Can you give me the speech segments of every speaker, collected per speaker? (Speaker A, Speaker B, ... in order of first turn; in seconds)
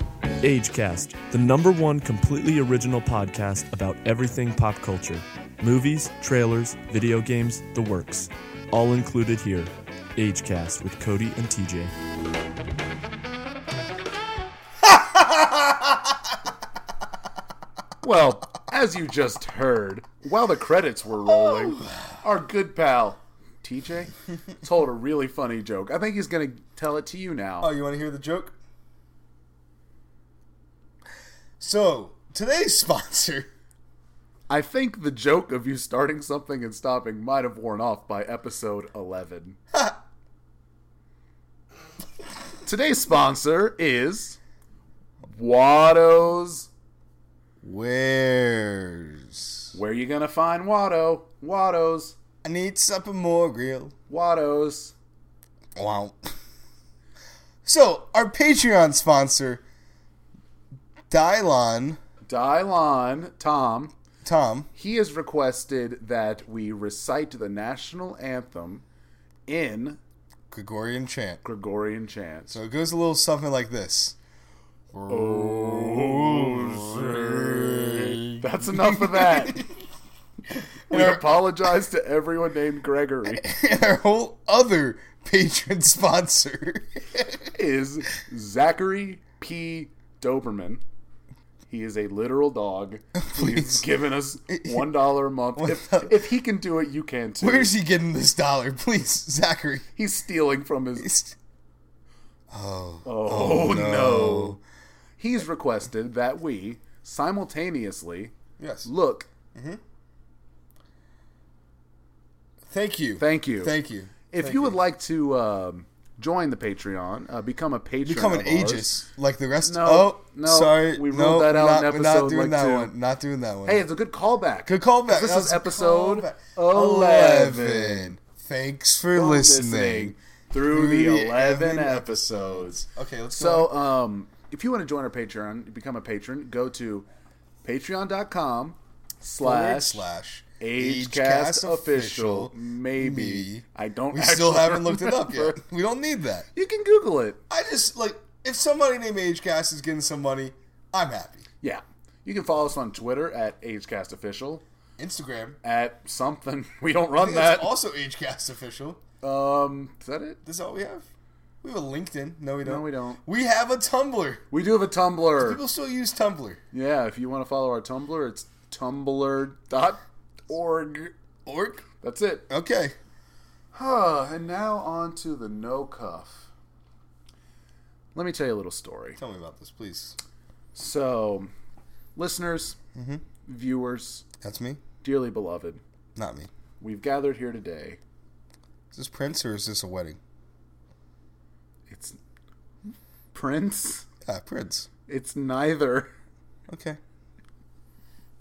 Speaker A: 0.4-11.9
Speaker B: 14.9-15.8, 21.2-22.1, 27.6-28.5, 31.6-33.5, 39.7-40.0, 47.6-49.6, 52.4-53.9, 55.8-56.3, 57.6-59.6, 61.1-62.0, 64.2-64.7, 70.5-71.4, 72.5-74.2, 74.9-79.7, 80.5-81.5, 83.4-87.5, 93.2-93.8, 94.5-94.9, 95.5-96.1, 97.4-99.9, 101.0-101.3, 102.5-104.6, 108.6-108.9, 109.5-109.8, 112.6-114.8, 118.0-123.8, 124.7-133.7, 139.4-146.4, 147.5-151.4, 155.0-155.6, 157.2-159.0, 160.4-161.0, 161.6-164.4, 165.4-166.6, 171.4-171.8, 172.5-172.9, 179.2-180.2, 182.9-183.2, 184.4-184.8, 186.2-186.5, 188.9-190.2, 194.2-194.9, 196.7-197.0
Speaker C: 18.0-27.7, 34.5-39.6, 42.6-44.4, 45.2-46.7, 49.7-52.1, 54.1-54.9, 62.2-63.9, 64.7-68.8, 69.5-70.0, 71.4-72.6, 75.1-79.6, 80.9-83.5, 87.5-90.8, 91.7-97.7, 100.0-101.1, 103.0-104.6, 105.2-108.3, 108.8-109.3, 113.2-113.7, 114.3-119.0, 119.6-122.9, 123.7-128.1, 129.1-137.1, 137.6-140.0, 140.6-145.6, 146.5-147.4, 151.6-154.6, 155.6-157.7, 159.2-160.4, 162.6-163.2, 164.5-165.6, 166.7-171.1, 172.0-172.4, 173.7-176.4, 178.1-179.2, 180.7-181.5, 182.2-182.8, 183.4-184.2, 185.0-185.8, 186.8-188.0, 191.9-192.2, 192.8-194.1, 195.1-196.1